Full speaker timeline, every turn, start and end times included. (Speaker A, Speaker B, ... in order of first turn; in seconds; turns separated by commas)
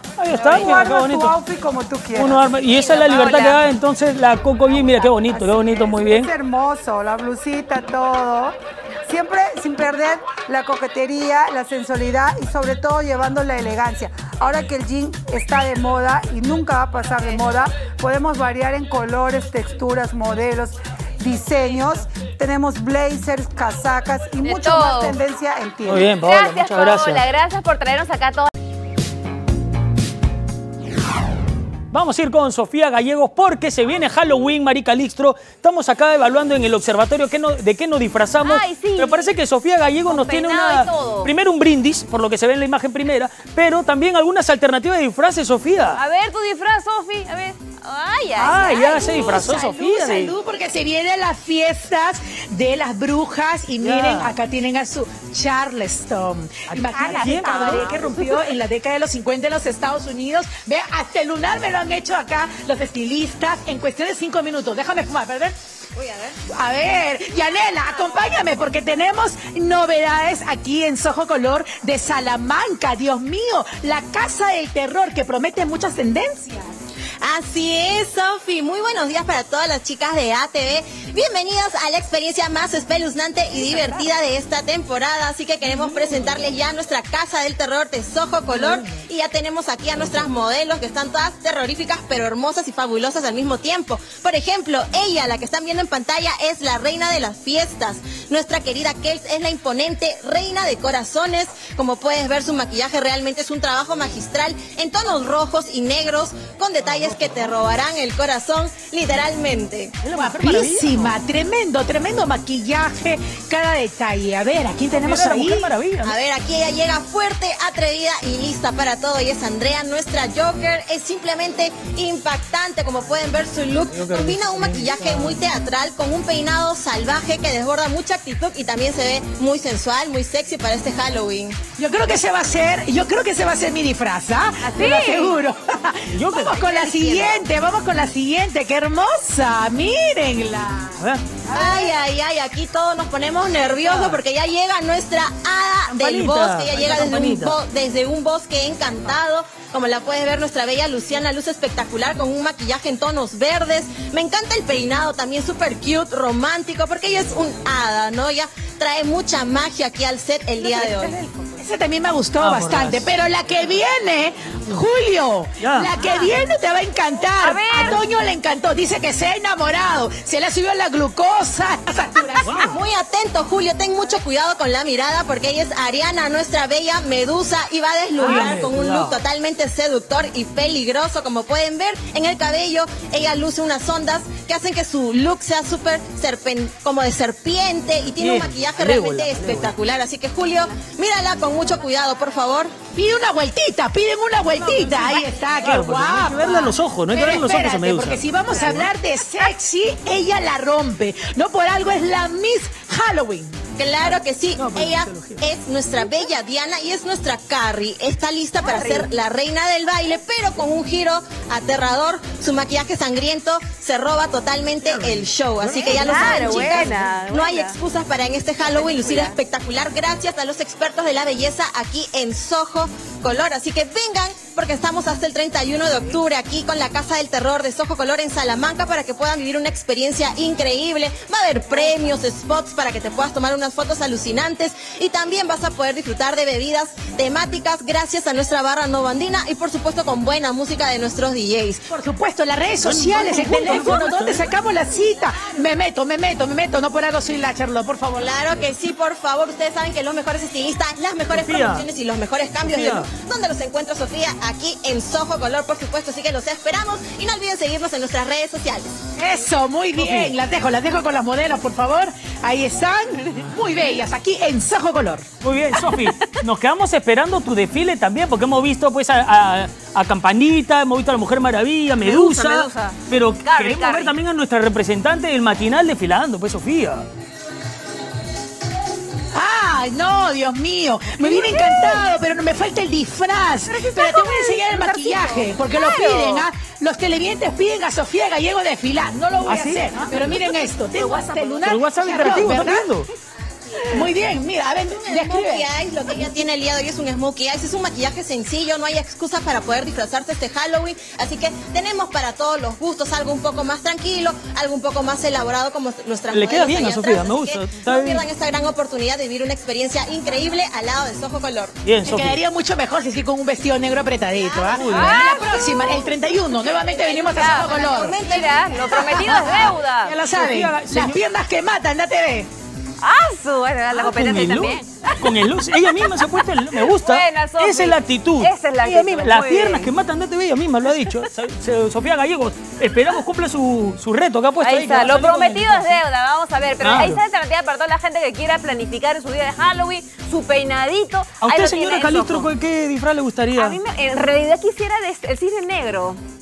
Speaker A: 0.2-1.4, Speaker B: 0.3-2.4, Speaker A: 2.1-6.3, Speaker C: 2.7-3.6, Speaker B: 4.7-26.1, Speaker C: 24.4-25.2, Speaker A: 25.9-27.3, Speaker C: 26.2-28.5, Speaker A: 31.9-46.0, Speaker C: 38.4-39.3, Speaker C: 40.1-41.3, Speaker C: 45.9-49.5, Speaker A: 48.4-50.3, Speaker D: 49.4-65.5, Speaker A: 53.8-54.3, Speaker A: 56.7-58.0, Speaker C: 57.7-58.0, Speaker E: 66.0-66.4, Speaker D: 66.5-76.8, Speaker E: 77.2-110.0, Speaker A: 85.8-86.1, Speaker A: 106.8-107.5, Speaker A: 110.0-111.1, Speaker D: 110.1-115.7, Speaker A: 115.0-116.2, Speaker E: 116.0-131.6, Speaker A: 123.9-125.5, Speaker D: 131.8-141.0, Speaker C: 134.6-135.4, Speaker A: 136.1-136.7, Speaker E: 136.6-137.4, Speaker A: 141.0-141.2, Speaker E: 141.5-161.2, Speaker A: 143.8-144.2, Speaker A: 145.9-147.6, Speaker D: 161.6-172.6, Speaker A: 162.4-163.1, Speaker A: 165.6-165.9, Speaker C: 167.4-168.0, Speaker A: 172.4-172.8, Speaker E: 172.5-192.7, Speaker A: 178.2-179.2, Speaker A: 188.2-189.8, Speaker D: 192.9-203.6, Speaker A: 194.6-198.9, Speaker E: 203.8-241.8, Speaker A: 204.0-205.5, Speaker C: 208.6-209.1, Speaker A: 214.8-216.9, Speaker C: 215.8-217.8, Speaker C: 218.7-219.3, Speaker D: 241.9-248.4, Speaker A: 242.8-244.4, Speaker E: 248.2-258.9, Speaker A: 251.3-251.9, Speaker A: 252.6-253.1, Speaker D: 259.2-265.3, Speaker A: 260.0-260.4, Speaker A: 265.4-277.1, Speaker C: 272.0-274.1, Speaker D: 279.4-293.0, Speaker C: 281.3-282.1, Speaker C: 284.0-284.6, Speaker C: 285.1-286.5, Speaker A: 289.4-290.4, Speaker A: 291.6-293.1, Speaker D: 293.9-295.7, Speaker E: 295.0-311.7, Speaker A: 306.3-308.2, Speaker A: 311.8-312.4, Speaker D: 312.0-322.5, Speaker A: 314.7-315.2, Speaker C: 314.9-315.9, Speaker C: 317.0-320.2, Speaker A: 320.1-321.2, Speaker C: 323.0-325.3, Speaker A: 323.9-336.0, Speaker C: 326.8-329.9, Speaker C: 334.6-342.5, Speaker A: 336.8-337.2, Speaker A: 341.4-343.8, Speaker C: 343.6-346.2